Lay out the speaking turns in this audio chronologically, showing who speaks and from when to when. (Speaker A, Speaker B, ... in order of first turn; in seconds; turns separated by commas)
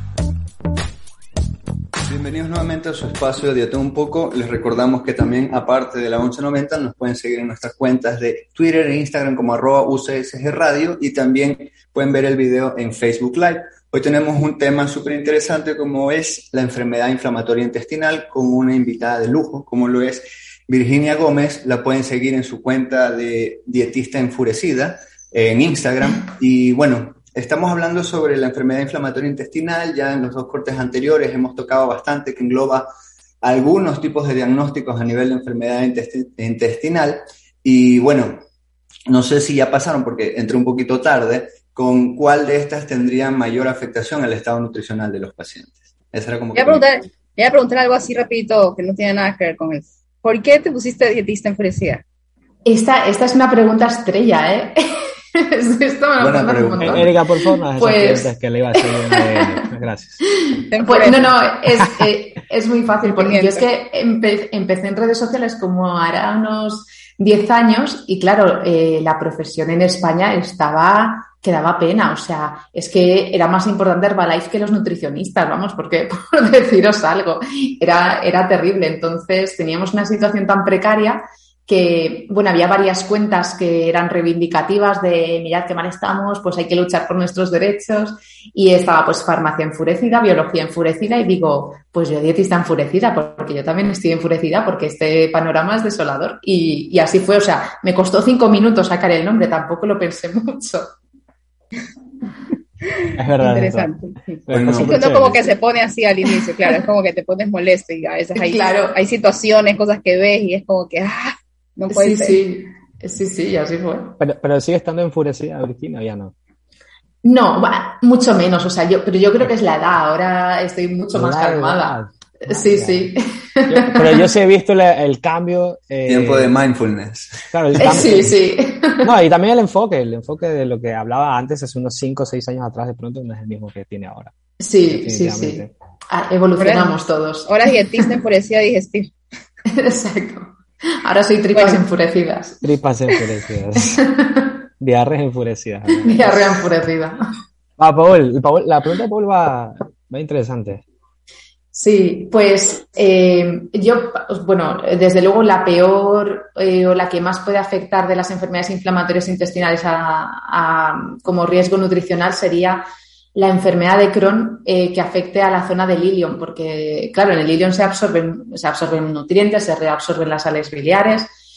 Speaker A: 2.1-32.9, Speaker A: 33.4-38.4, Speaker A: 39.1-46.8, Speaker B: 46.5-52.0, Speaker C: 52.6-59.5, Speaker A: 56.2-57.1, Speaker D: 56.8-60.2, Speaker C: 60.3-100.9, Speaker B: 60.7-61.3, Speaker B: 63.0-63.6, Speaker B: 102.9-104.2, Speaker D: 103.1-103.9, Speaker D: 104.5-105.5, Speaker A: 104.5-105.2, Speaker B: 104.7-112.4, Speaker C: 106.3-106.8, Speaker C: 108.3-109.0, Speaker C: 111.9-114.2, Speaker D: 114.2-116.3, Speaker C: 117.2-124.2, Speaker D: 121.1-123.1, Speaker D: 123.7-126.5, Speaker A: 126.1-128.0, Speaker D: 127.5-128.3, Speaker C: 127.8-129.1, Speaker D: 129.0-134.3, Speaker C: 134.6-137.5, Speaker D: 134.9-135.7, Speaker B: 136.6-139.1, Speaker C: 139.7-142.6, Speaker B: 141.5-141.8, Speaker D: 142.6-144.0, Speaker C: 143.8-144.5, Speaker D: 144.8-146.6, Speaker C: 146.0-147.2, Speaker D: 147.8-150.8, Speaker C: 151.7-162.8, Speaker C: 163.3-171.3